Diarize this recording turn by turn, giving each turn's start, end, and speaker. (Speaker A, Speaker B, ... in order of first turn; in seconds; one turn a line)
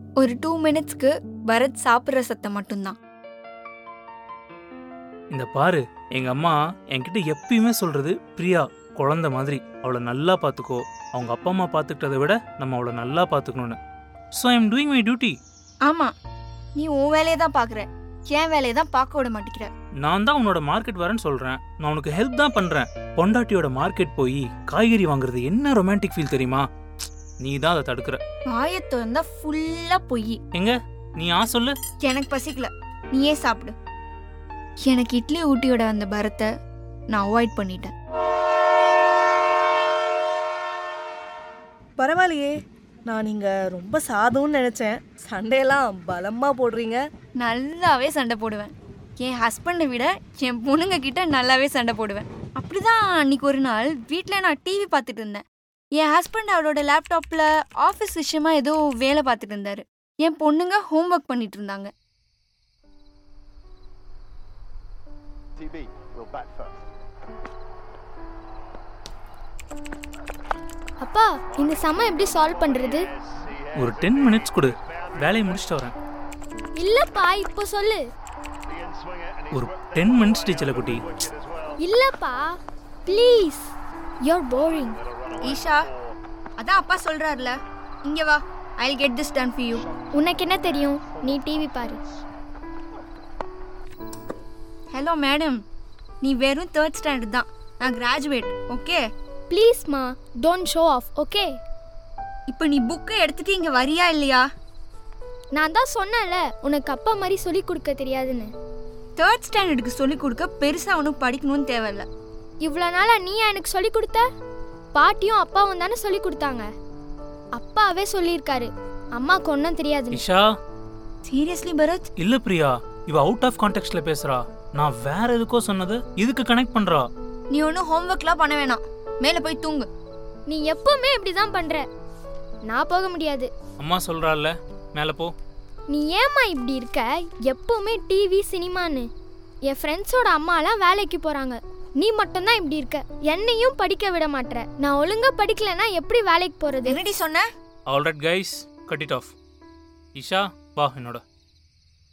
Speaker A: 0.2-3.0
Speaker B: 5.3-13.8
Speaker B: 14.3-15.3
Speaker A: 15.8-16.1
Speaker A: 16.8-19.7
Speaker B: 20.0-26.6
Speaker B: 27.4-28.2
Speaker A: 28.5-30.4
Speaker B: 30.5-31.7
Speaker A: 32.0-33.7
Speaker A: 34.9-36.5
Speaker A: 37.1-37.9
Speaker C: 42.0-42.5
Speaker C: 43.1-47.0
Speaker A: 47.4-55.4
Speaker A: 56.0-61.9
Speaker D: 65.7-66.7
Speaker E: 71.0-73.1
Speaker D: 71.6-75.4
Speaker B: 73.8-75.9
Speaker E: 76.8-78.0
Speaker D: 78.7-81.8
Speaker B: 79.5-81.0
Speaker E: 81.8-82.5
Speaker E: 83.1-83.7
Speaker E: 84.3-85.0
Speaker D: 85.0-86.2
Speaker A: 85.4-85.9
Speaker A: 86.6-87.5
Speaker A: 88.0-89.8
Speaker E: 90.1-92.0
Speaker A: 94.9-95.5
Speaker A: 96.2-99.0
Speaker E: 99.5-101.5
Speaker A: 102.5-104.4
Speaker E: 105.5-108.5
Speaker A: 109.2-112.0
Speaker E: 112.6-114.2
Speaker E: 114.9-116.7
Speaker E: 117.5-120.2
Speaker B: 120.1-120.5
Speaker A: 121.3-122.0
Speaker B: 122.2-127.1
Speaker A: 127.5-129.9
Speaker E: 130.5-131.8
Speaker E: 132.7-133.5
Speaker B: 133.8-135.3
Speaker E: 135.9-139.0
Speaker E: 139.7-147.0
Speaker A: 146.8-147.4
Speaker B: 147.9-149.3
Speaker B: 150.2-151.2